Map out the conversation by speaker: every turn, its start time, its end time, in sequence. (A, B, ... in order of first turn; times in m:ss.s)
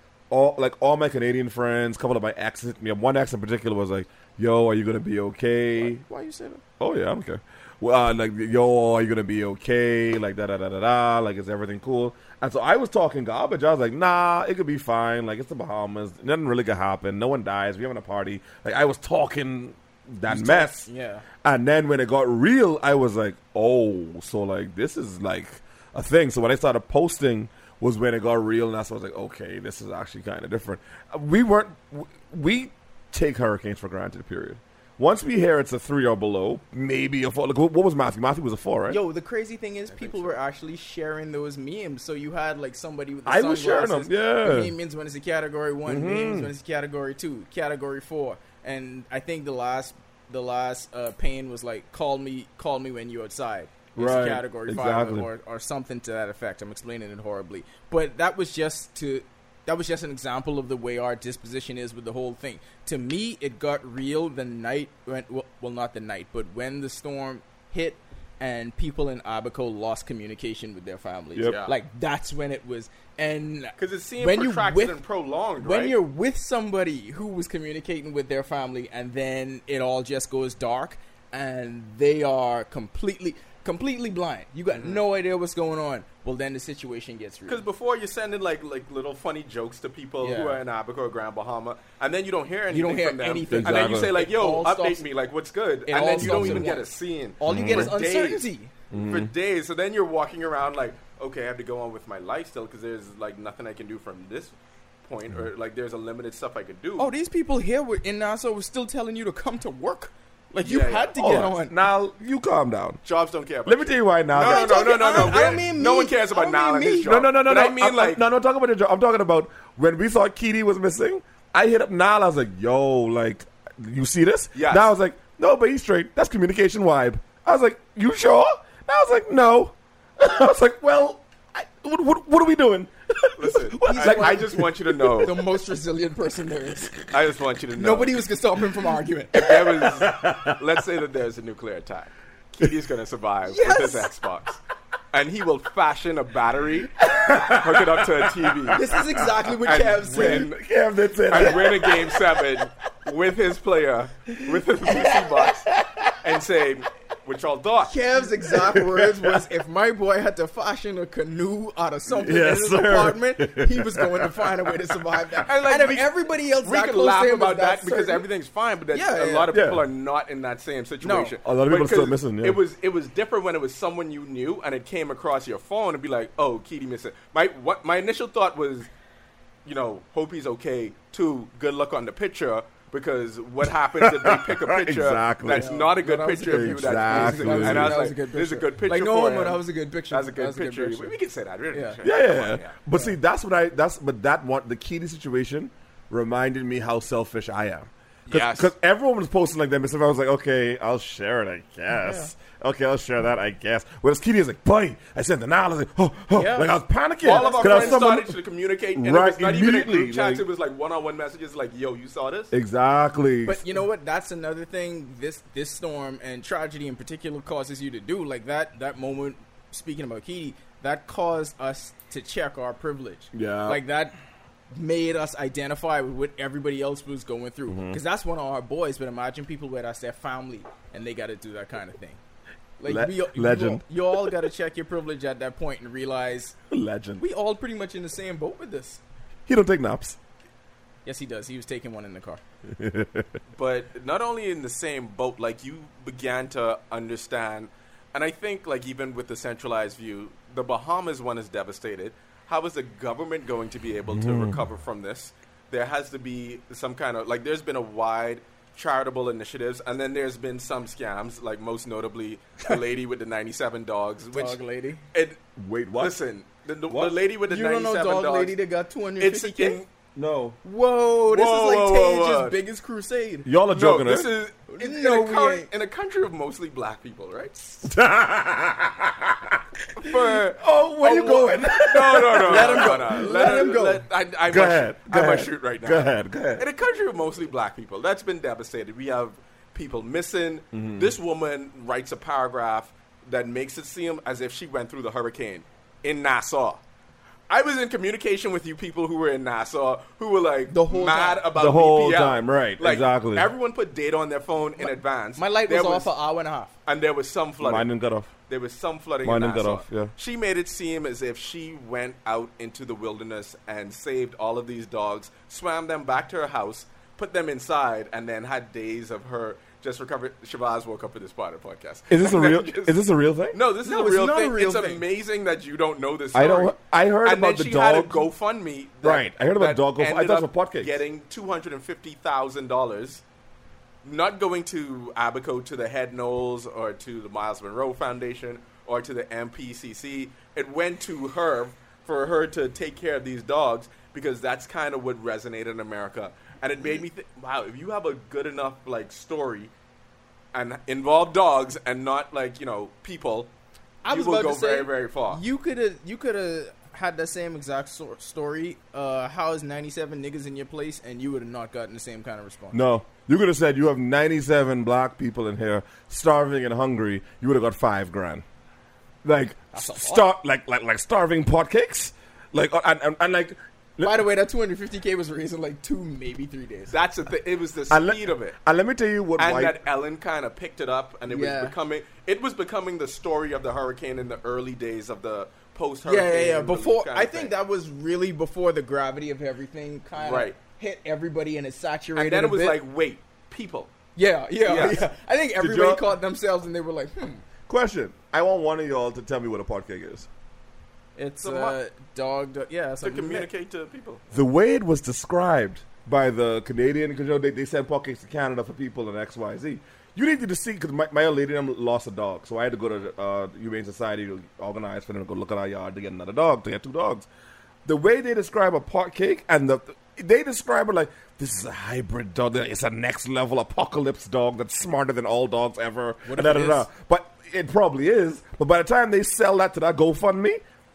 0:00.3-0:06.0 A
0:05.8-0:06.6 B
0:06.8-0:20.9 A
0:20.2-0:21.2 B
0:21.4-0:39.0 A
0:38.9-1:15.0 B
0:39.9-0:40.4 C
0:43.2-0:44.7 A
0:45.9-0:46.5 A
0:54.0-0:55.3 A
1:11.4-1:11.7 C
1:13.8-1:15.9 C
1:15.6-1:27.6 B
1:24.7-1:25.0 C
1:27.5-1:47.1 C
1:30.2-1:30.6 B
1:32.7-1:35.0 B
1:33.5-1:34.1 A
1:35.9-1:38.7 B
1:36.2-1:36.7 A
1:37.5-1:37.9 A
1:38.9-1:39.3 A
1:47.0-1:51.7 B
1:50.6-1:51.1 C
1:51.1-1:53.0 A
1:53.0-1:58.2 C
1:53.6-1:55.6 A
1:54.4-1:57.2 B
1:57.0-2:15.3 A
2:04.5-2:04.9 C
2:13.4-2:15.4 C
2:13.8-2:14.6 B
2:15.2-2:17.0 B
2:17.1-2:18.2 C
2:17.8-2:19.8 B
2:19.3-2:24.6 C
2:19.9-2:20.6 A
2:23.5-2:24.1 B
2:25.1-2:28.9 C
2:27.1-2:29.0 A
2:28.7-2:30.5 B
2:29.6-2:30.6 C
2:30.1-2:32.2 A
2:31.3-2:37.9 C
2:34.9-2:36.2 A
2:37.8-2:48.2 B
2:38.5-2:39.5 A
2:42.1-2:45.0 A
2:45.4-2:58.9 C
2:48.9-2:49.5 B
2:49.5-2:49.8 A
2:51.0-2:51.3 B
2:51.4-2:52.6 A
2:59.6-3:12.8 C
3:03.9-3:05.7 A
3:05.5-3:11.1 B
3:06.5-3:08.0 A
3:11.7-3:12.0 B
3:12.0-3:28.4 A
3:18.3-3:18.7 C
3:22.0-3:22.3 B
3:26.3-3:28.0 B
3:27.2-3:32.5 C
3:29.0-3:30.4 A
3:32.5-3:33.6 A
3:33.4-3:44.2 B
3:43.3-3:43.8 A
3:44.7-3:52.2 B
3:47.7-3:48.0 A
3:52.8-3:56.5 B
3:52.8-3:54.4 A
3:56.7-3:57.2 A
3:57.2-3:59.0 B
3:59.5-4:00.2 A
4:01.0-4:02.4 B
4:02.7-4:03.4 A
4:03.5-4:24.6 C
4:14.2-4:14.6 A
4:24.4-4:25.0 B
4:25.1-4:25.4 C
4:25.6-4:26.2 A
4:26.0-4:28.6 C
4:26.9-4:27.2 A
4:27.5-4:29.8 B
4:29.2-4:29.9 C
4:30.1-4:30.6 A
4:30.6-4:33.5 B
4:31.3-4:32.6 C
4:33.4-4:34.3 A
4:33.7-4:37.9 C
4:34.7-4:35.7 B
4:37.9-4:43.6 A
4:40.0-4:56.8 C
4:42.4-4:44.0 B
4:44.5-4:46.6 A
4:50.7-4:51.1 A
4:57.5-5:06.1 C
5:00.7-5:01.5 B
5:01.5-5:03.5 A
5:04.8-5:06.7 B
5:06.9-5:07.9 C
5:07.6-5:08.3 A
5:08.5-5:23.0 C
5:09.2-5:10.1 A
5:22.1-5:23.6 A
5:23.5-5:33.2 C
5:23.8-5:25.0 B
5:26.3-5:28.2 A
5:29.0-5:31.0 A
5:34.0-5:49.7 C
5:50.5-5:53.5 C
5:54.0-6:02.8 B
5:54.1-5:55.4 C
6:02.7-6:08.4 A
6:09.2-6:14.2 A
6:09.7-6:10.2 B
6:14.0-6:17.0 B
6:16.9-6:18.6 C
6:17.9-6:19.8 A
6:19.4-6:27.5 C
6:21.3-6:21.7 B
6:26.0-6:32.8 B
6:30.2-6:30.6 C
6:32.2-6:33.9 C
6:34.2-6:37.4 B
6:34.6-6:35.0 C
6:35.6-6:36.0 A
6:37.7-6:40.3 A
6:41.2-6:43.5 B
6:41.4-6:41.8 C
6:43.0-6:44.2 C
6:44.3-6:57.3 A
6:57.8-7:10.6 A
7:06.2-7:06.9 B